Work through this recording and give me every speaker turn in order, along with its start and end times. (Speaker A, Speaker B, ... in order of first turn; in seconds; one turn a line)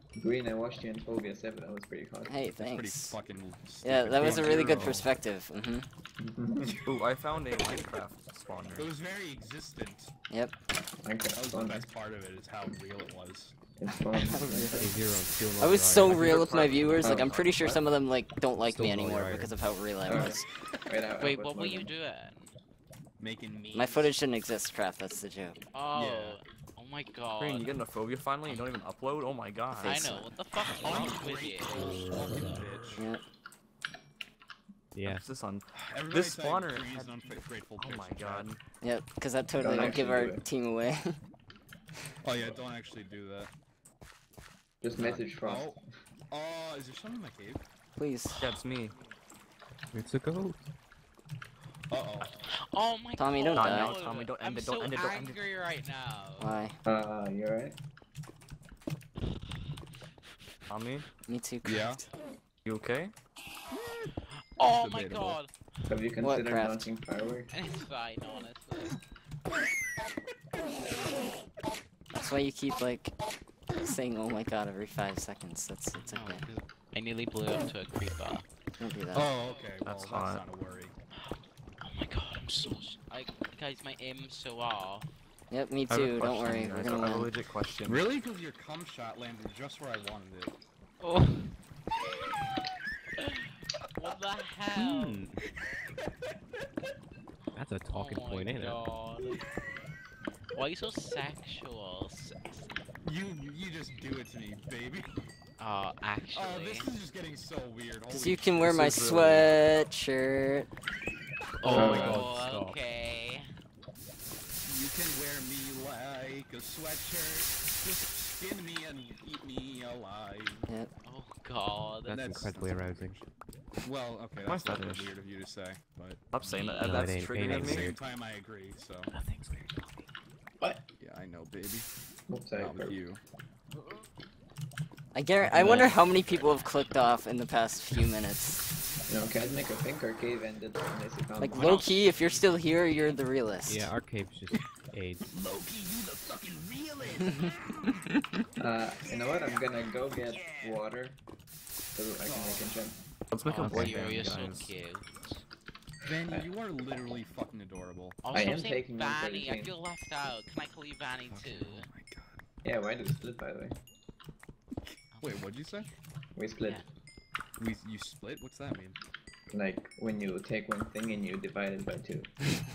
Speaker A: 0.1-2.4
Speaker B: 2.3-3.2
Speaker C: 2.6-5.1
Speaker B: 3.8-5.9
Speaker D: 4.6-5.0
Speaker A: 6.2-6.8
Speaker C: 6.6-7.0
Speaker E: 6.8-8.9
Speaker C: 7.6-7.8
Speaker C: 8.7-10.1
Speaker B: 10.3-10.5
Speaker A: 11.0-11.9
Speaker C: 11.3-13.5
Speaker A: 13.8-15.1
Speaker B: 14.1-14.8
Speaker D: 14.7-16.4
Speaker B: 15.6-20.4
Speaker E: 16.1-17.8
Speaker A: 17.0-17.7
Speaker D: 18.6-19.5
Speaker A: 20.1-21.9
Speaker F: 21.2-22.5
Speaker C: 23.2-24.1
Speaker B: 23.7-25.6
Speaker F: 25.7-27.7
Speaker C: 25.9-26.4
Speaker E: 27.4-30.0
Speaker B: 29.7-30.4
Speaker F: 29.8-32.3
Speaker C: 30.7-33.0
Speaker B: 33.0-33.2
Speaker D: 34.9-35.2
Speaker E: 35.0-38.6
Speaker C: 35.7-38.5
Speaker B: 38.8-41.2
Speaker A: 39.6-40.4
Speaker C: 42.2-43.5
Speaker A: 44.8-45.8
Speaker C: 44.9-45.8
Speaker C: 46.3-47.6
Speaker B: 48.0-48.4
Speaker E: 48.4-48.9
Speaker D: 49.9-50.6
Speaker C: 51.9-52.4
Speaker F: 52.5-56.6
Speaker B: 53.2-54.0
Speaker E: 53.5-55.4
Speaker B: 56.4-56.8
Speaker A: 56.8-57.8
Speaker F: 60.2-60.5
Speaker E: 60.7-61.0
Speaker B: 61.2-62.1
Speaker C: 61.6-62.0
Speaker E: 62.6-63.1
Speaker C: 63.7-64.1
Speaker F: 64.6-65.5
Speaker C: 64.7-65.4
Speaker A: 65.9-67.5
Speaker B: 66.2-66.9
Speaker F: 67.5-68.9
Speaker B: 72.1-73.2
Speaker B: 73.8-76.4
Speaker F: 76.0-78.5
Speaker B: 78.8-79.3
Speaker C: 79.1-80.9
Speaker E: 79.8-80.4
Speaker F: 81.2-85.1
Speaker B: 85.5-87.3
Speaker E: 85.9-88.0
Speaker C: 87.8-90.5
Speaker F: 91.0-91.5
Speaker F: 93.2-93.4
Speaker F: 94.0-95.2
Speaker D: 94.9-95.3
Speaker C: 95.7-96.6
Speaker D: 97.5-98.8
Speaker F: 97.9-99.5
Speaker F: 100.5-102.7
Speaker C: 103.0-105.1
Speaker F: 105.6-106.9
Speaker C: 106.3-108.6
Speaker B: 108.1-110.7
Speaker E: 108.6-109.5
Speaker D: 111.6-112.8
Speaker F: 111.6-113.4
Speaker A: 111.7-112.2
Speaker C: 111.7-112.2
Speaker C: 114.6-120.7
Speaker F: 121.0-122.2
Speaker D: 122.1-123.2
Speaker C: 122.1-123.3
Speaker C: 123.8-126.4
Speaker E: 124.4-125.2
Speaker E: 126.3-127.9
Speaker F: 126.4-127.2
Speaker D: 126.8-128.0
Speaker C: 127.4-129.1
Speaker D: 129.1-130.1
Speaker C: 131.0-131.9
Speaker A: 132.3-133.0
Speaker C: 132.5-133.2
Speaker B: 135.1-138.6
Speaker A: 135.5-135.9
Speaker C: 136.0-136.4
Speaker F: 136.3-136.7
Speaker A: 139.1-141.8
Speaker B: 141.4-143.9
Speaker F: 141.5-143.2
Speaker D: 143.7-145.3
Speaker C: 145.3-148.0
Speaker A: 148.6-151.2
Speaker C: 149.2-150.8
Speaker A: 151.9-153.0
Speaker C: 152.2-152.7
Speaker E: 153.3-154.7
Speaker F: 153.4-155.4
Speaker D: 153.6-153.9
Speaker A: 156.0-156.5
Speaker C: 156.0-158.2
Speaker F: 158.2-161.9
Speaker A: 158.3-159.7
Speaker C: 161.2-162.4
Speaker A: 162.6-163.8
Speaker C: 164.8-165.9
Speaker F: 165.1-165.8
Speaker A: 166.3-166.8
Speaker F: 166.6-166.8
Speaker C: 167.6-169.0
Speaker A: 169.5-172.3